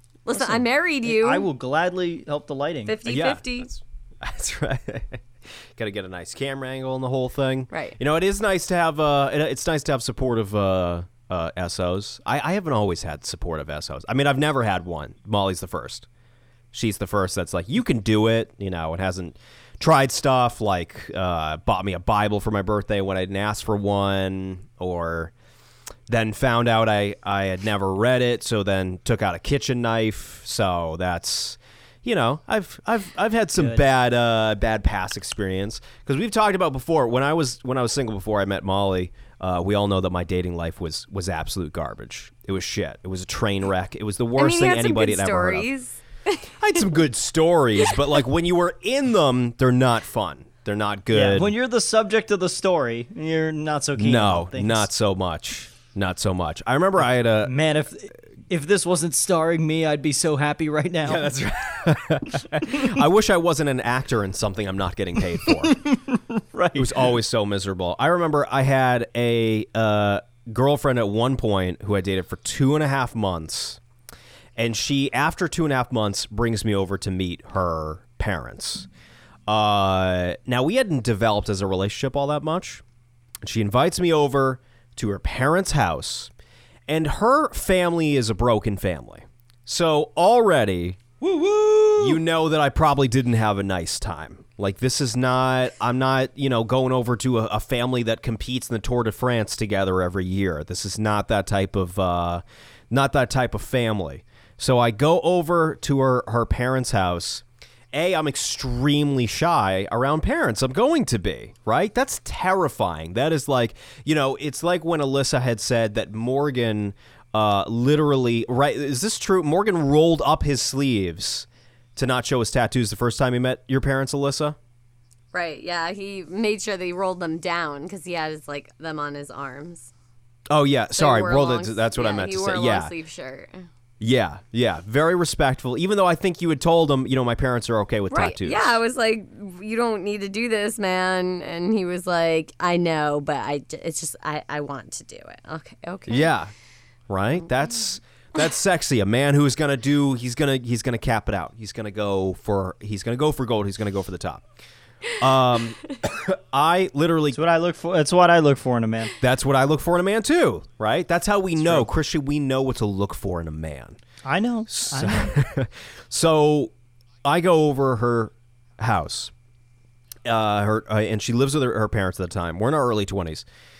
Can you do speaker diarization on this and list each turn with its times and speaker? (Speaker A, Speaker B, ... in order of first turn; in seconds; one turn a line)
Speaker A: 0.2-1.4
Speaker B: 0.3-2.9
Speaker A: 2.9-3.7
Speaker C: 3.0-16.1
Speaker A: 7.7-8.0
Speaker C: 16.7-25.3
Speaker C: 26.1-45.7
Speaker B: 33.6-33.8
Speaker A: 44.4-46.5
Speaker C: 46.6-51.5
Speaker B: 51.1-54.9
Speaker C: 54.0-57.5
Speaker B: 57.4-61.3
Speaker C: 61.0-65.8
Speaker B: 65.5-67.1
Speaker C: 66.8-73.8
Speaker C: 74.5-78.9
Speaker C: 79.5-82.8
Speaker C: 83.4-86.3
Speaker C: 86.9-91.0
Speaker B: 91.2-92.2
Speaker C: 92.0-124.6
Speaker A: 125.3-129.9
Speaker C: 130.5-132.9
Speaker A: 130.9-133.7
Speaker C: 134.0-138.8
Speaker A: 138.1-146.3
Speaker C: 146.1-146.5
Speaker C: 147.1-154.4
Speaker C: 155.2-157.4
Speaker B: 157.3-159.1
Speaker C: 159.2-164.0
Speaker B: 161.6-161.9
Speaker B: 164.2-165.3
Speaker C: 164.7-166.7
Speaker C: 167.2-169.3
Speaker C: 170.2-173.4